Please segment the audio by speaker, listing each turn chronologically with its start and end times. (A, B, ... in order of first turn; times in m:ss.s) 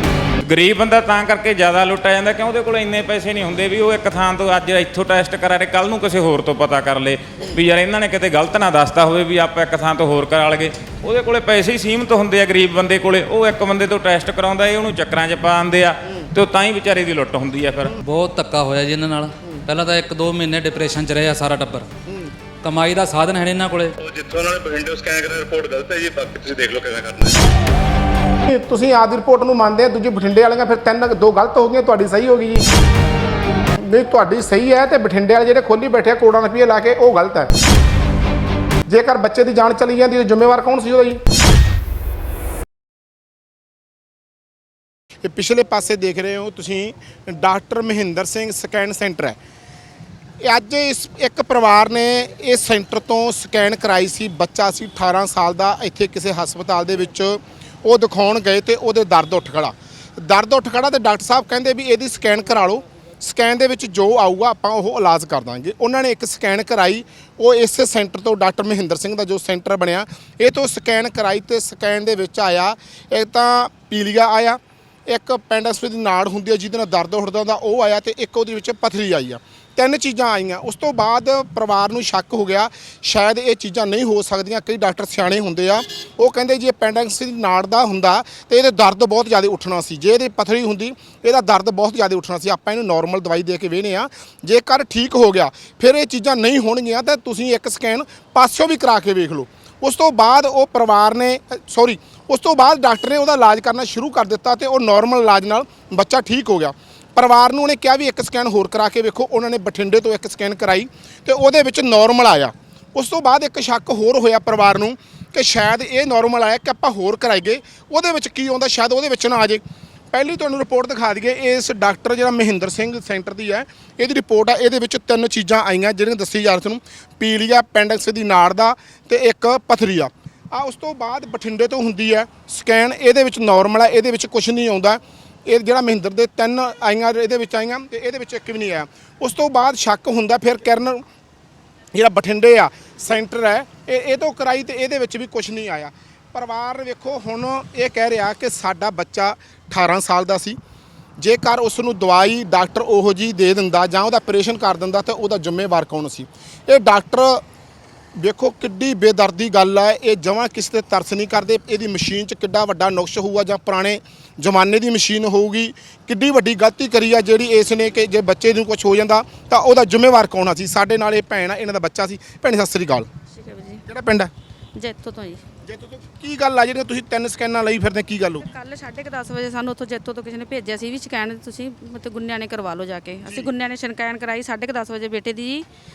0:00.4-0:18.0 A
0:18.0-0:21.9 B
0:22.6-0:23.9 B
0:24.0-0:27.4 C
0:28.5-0:32.6 D
0:33.8-0:37.5 D
0:38.9-0:41.2 D
0:45.2-0:49.4 D
0:50.4-1:59.6 D
2:00.1-2:21.0 D
2:21.9-2:30.6 D
2:31.2-2:37.4 D
2:38.2-2:53.1 D
2:53.3-2:53.8 E
2:53.9-2:54.3 D
2:54.8-2:55.4 E
2:55.7-2:58.5 D
2:58.4-3:05.6 E